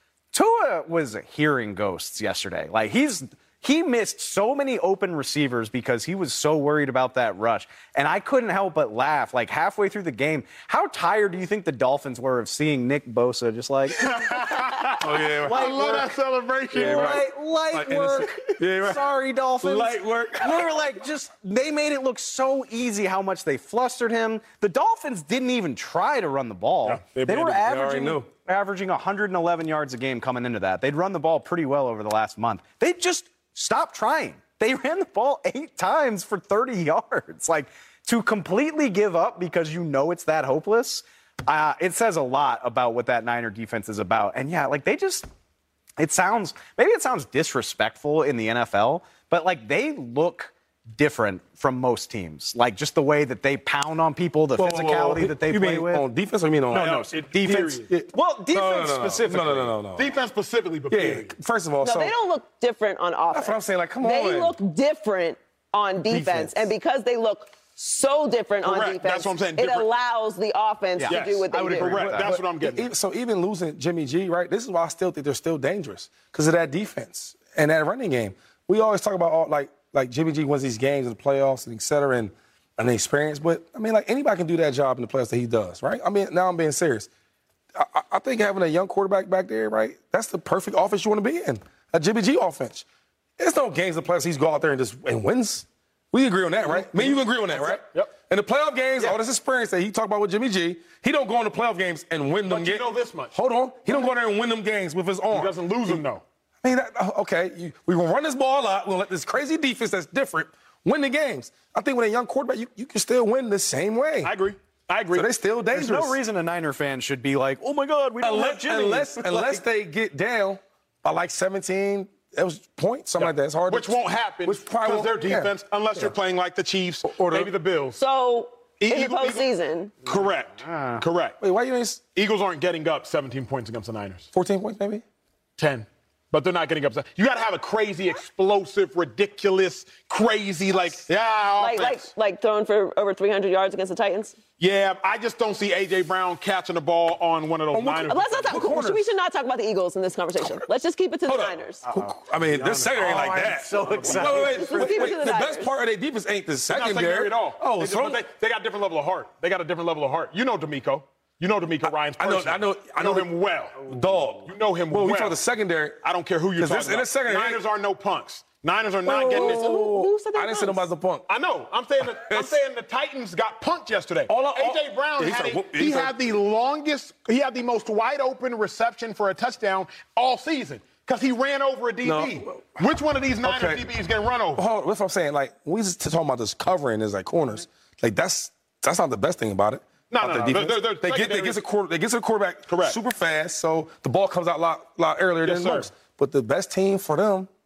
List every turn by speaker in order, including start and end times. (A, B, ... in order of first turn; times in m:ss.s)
0:00.3-0:14.1 A
0:13.9-0:17.2 B
0:15.0-0:16.1 C
0:15.5-0:16.0 A
0:16.7-0:19.1 C
0:16.7-0:45.3 A
0:19.6-0:20.7 C
0:26.8-0:27.6 B
0:27.5-0:28.3 C
0:46.0-0:56.0 A
0:54.6-1:00.1 C
0:56.7-0:57.9 B
0:56.7-0:59.8 A
1:00.0-1:01.3 B
1:00.9-1:02.1 C
1:01.8-1:12.2 D
1:03.3-1:04.6 C
1:06.1-1:06.7 C
1:08.6-1:09.9 B
1:11.0-1:12.4 A
1:11.1-1:12.9 B
1:12.2-1:27.1 C
1:27.7-1:32.8 C
1:33.4-1:46.0 C
1:36.6-1:38.1 B
1:42.5-1:43.3 B
1:45.3-1:46.2 B
1:46.6-1:54.3 C
1:54.2-1:55.3 B
1:55.1-1:56.2 C
1:55.7-1:59.6 A
1:58.2-2:06.2 C
2:03.2-2:08.0 B
2:07.0-2:07.5 C
2:08.0-2:10.0 D
2:08.8-2:09.4 B
2:10.0-2:11.4 B
2:10.6-2:11.0 A
2:11.4-2:12.0 C
2:12.1-2:14.3 B
2:14.3-2:15.0 C
2:15.6-2:22.1 B
2:21.6-2:24.3 D
2:24.6-2:28.6 B
2:27.7-2:29.0 C
2:28.1-2:31.8 D
2:31.2-2:38.2 C
2:31.8-2:35.2 A
2:32.6-2:34.6 B
2:34.4-2:35.7 D
2:36.7-2:45.4 B
2:41.8-2:43.3 C
2:43.8-2:46.0 C
2:46.0-2:49.8 B
2:46.6-2:47.6 C
2:49.0-2:51.3 C
2:49.1-2:50.8 D
2:51.3-3:04.6 B
2:52.0-2:52.6 C
2:54.3-2:56.1 C
3:02.0-3:02.8 C
3:03.4-3:03.9 C
3:04.6-3:17.5 C
3:10.1-3:11.6 B
3:12.7-3:13.0 B
3:15.4-3:15.9 B